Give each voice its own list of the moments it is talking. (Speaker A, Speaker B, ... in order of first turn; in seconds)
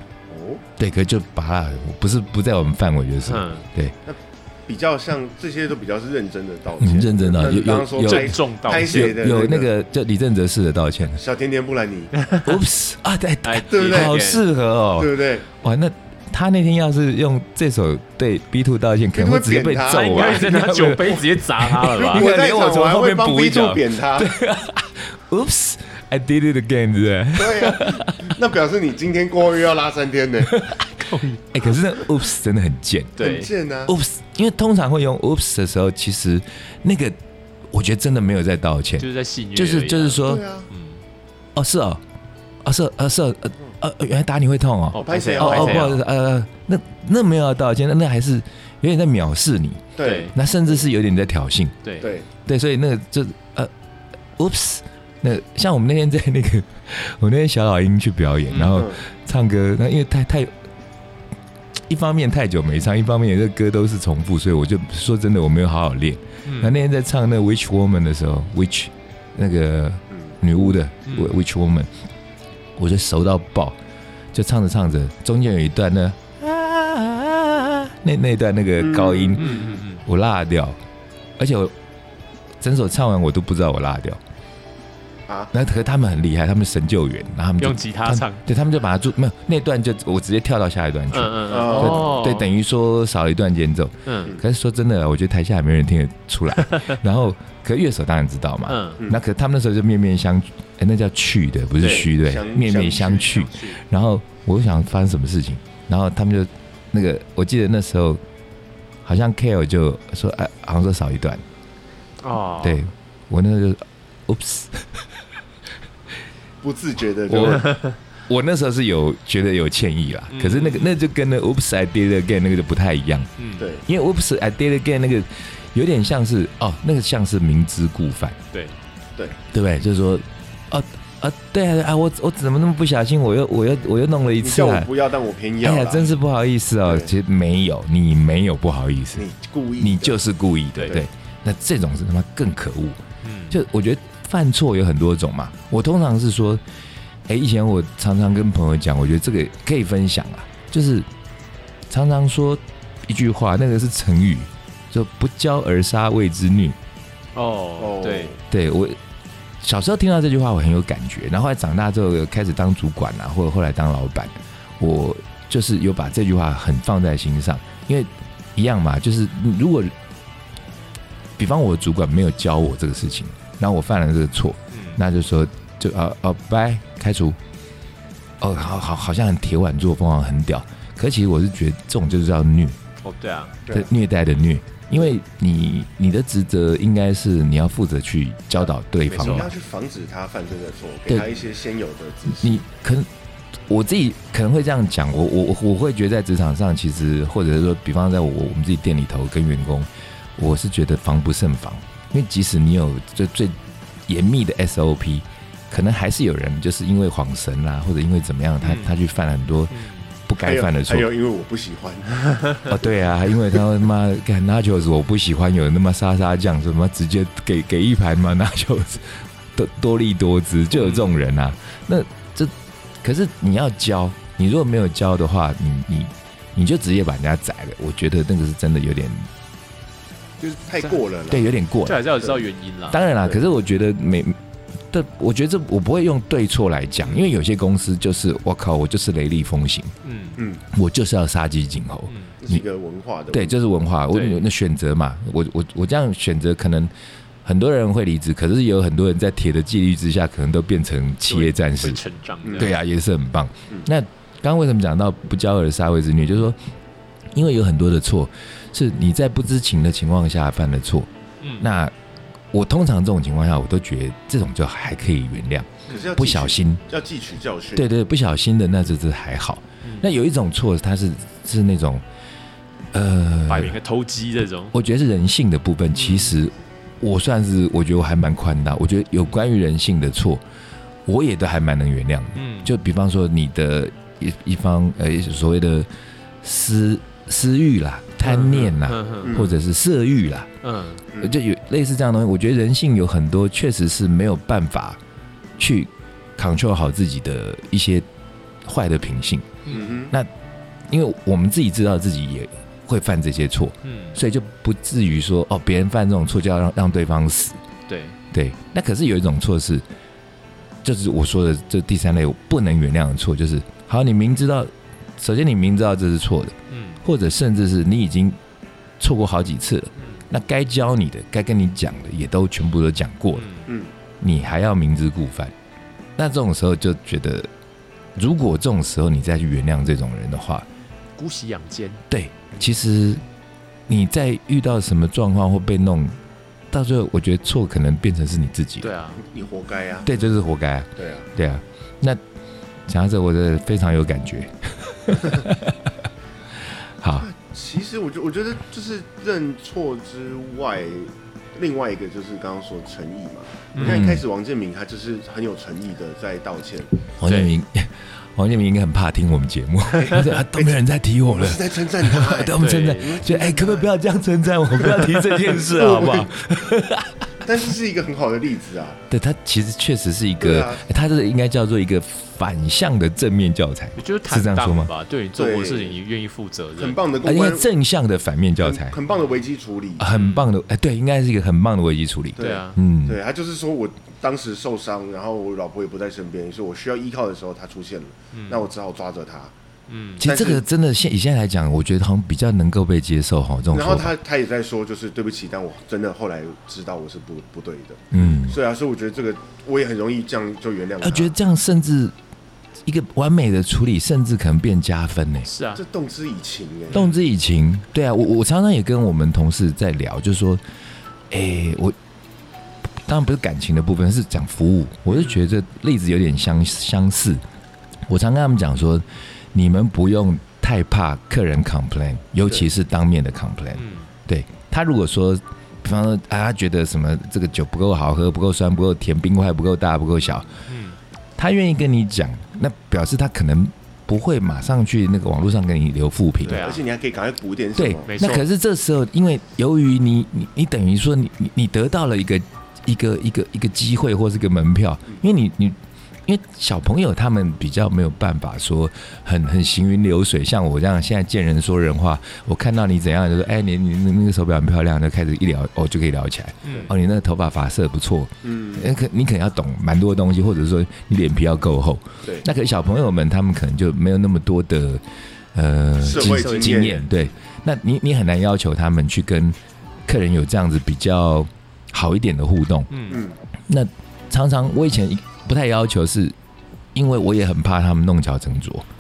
Speaker A: 0.3-0.6, 4.1-9.7, 11.2-12.1, 13.7-14.2, 15.0-15.5, 19.1-20.6, 22.0-24.3, 27.4-30.7, 33.2-34.0, 40.2-40.7, 45.0-46.0, 50.0-50.8, 52.0-52.3, 58.7-59.0, 70.1-70.4, 78.8-79.8, 91.5-92.2, 101.8-103.5, 116.6-117.8, 123.6-123.8, 134.4-136.1, 136.8-137.1, 139.2-140.2, 157.8-158.4, 189.1-192.6, 210.4-213.1, 230.4-231.5, 240.4-240.6, 242.4-243.5, 252.4-252.7, 265.9-267.9, 289.2-289.5, 299.7-300.1, 339.2-340.1, 341.0-341.3, 347.2-357.0, 360.0-363.9, 364.7-366.3, 367.4-369.0, 370.4-370.9, 375.4-376.0, 376.8-377.7, 378.6-380.1, 382.4-389.5, 390.2-390.6, 393.7-401.3, 405.7-407.1, 422.4-422.7, 436.4-438.2, 456.7-456.9, 458.4-459.0, 466.0-467.1, 473.1-473.4
Speaker B: 0.8-4.0, 6.8-11.2, 12.4-28.3, 30.5-33.3, 33.9-37.2, 37.7-40.4, 41.5-42.0, 42.6-51.8, 52.5-53.7, 54.4-60.5, 61.9-71.9, 72.8-73.8, 74.3-80.8, 81.4-81.8, 82.6-84.2, 85.5-108.2, 109.0-111.4, 112.6-115.1, 117.3-123.3, 123.9-128.4, 129.5-134.9, 135.6-139.2, 139.8-146.6, 147.3-151.1, 151.9-156.8, 158.5-159.0, 159.6-170.0, 171.4-177.4, 178.4-182.8, 183.7-189.5, 192.3-193.1, 193.7-211.1, 212.7-229.3, 231.3-232.1, 232.9-234.4, 234.9-239.9, 240.7-242.6, 243.3-246.9, 247.4-252.0, 252.6-256.6, 257.3-261.9, 262.5-266.8, 267.8-272.0, 272.9-273.8, 274.7-280.4, 281.1-285.9, 286.4-290.5, 291.2-295.0, 295.6-298.1, 298.6-299.5, 300.9-307.6, 308.3-309.9, 310.8-318.4, 319.0-323.5, 324.2-325.5, 326.2-327.5, 328.1-330.7, 332.1-333.2, 333.9-336.2, 336.7-338.9, 340.0-342.2, 342.9-345.8, 347.0-347.3, 353.8-354.2, 357.2-367.3, 369.1-374.9, 377.2-379.0, 380.0-383.2, 390.2-394.1, 398.1-398.6, 401.0-402.2, 402.9-405.5, 406.9-410.6, 411.3-412.0, 413.0-417.4, 418.1-430.6, 431.4-436.7, 437.8-465.0, 465.5-472.9, 473.7-476.4, 476.9-478.9
Speaker C: 3.2-3.7, 7.9-9.2, 12.2-12.6, 13.4-14.4, 19.9-22.3, 31.0-31.4, 33.2-33.5, 39.0-41.0, 44.9-46.0, 50.0-50.3, 51.8-52.1, 58.5-58.9, 66.5-66.7, 71.1-71.4, 79.4-80.0, 87.6-88.4, 91.1-92.5, 94.1-94.4, 96.6-97.0, 98.7-99.0, 101.8-102.1, 112.2-112.8, 120.3-121.0, 123.4-123.7, 143.2-143.6, 157.3-158.3, 174.7-175.0, 183.0-183.6, 189.1-189.5, 208.6-208.9, 209.7-210.2, 220.7-221.1, 231.8-233.1, 240.0-240.4, 242.1-242.3, 244.1-244.5, 251.3-252.8, 261.4-261.7, 273.5-274.7, 275.9-276.4, 282.4-282.8, 288.2-289.4, 290.6-291.0, 299.7-300.0, 303.9-304.2, 307.9-308.2, 316.7-317.0, 323.4-323.7, 331.2-332.0, 338.8-339.2, 353.7-354.1, 357.3-357.5, 362.5-363.2, 374.0-377.1, 380.1-380.5, 382.4-382.8, 388.3-388.7, 389.9-390.2, 405.5-405.8, 423.7-424.1, 430.7-431.0, 436.4-436.9, 438.1-438.5, 456.6-456.9, 466.1-467.1, 472.9-473.2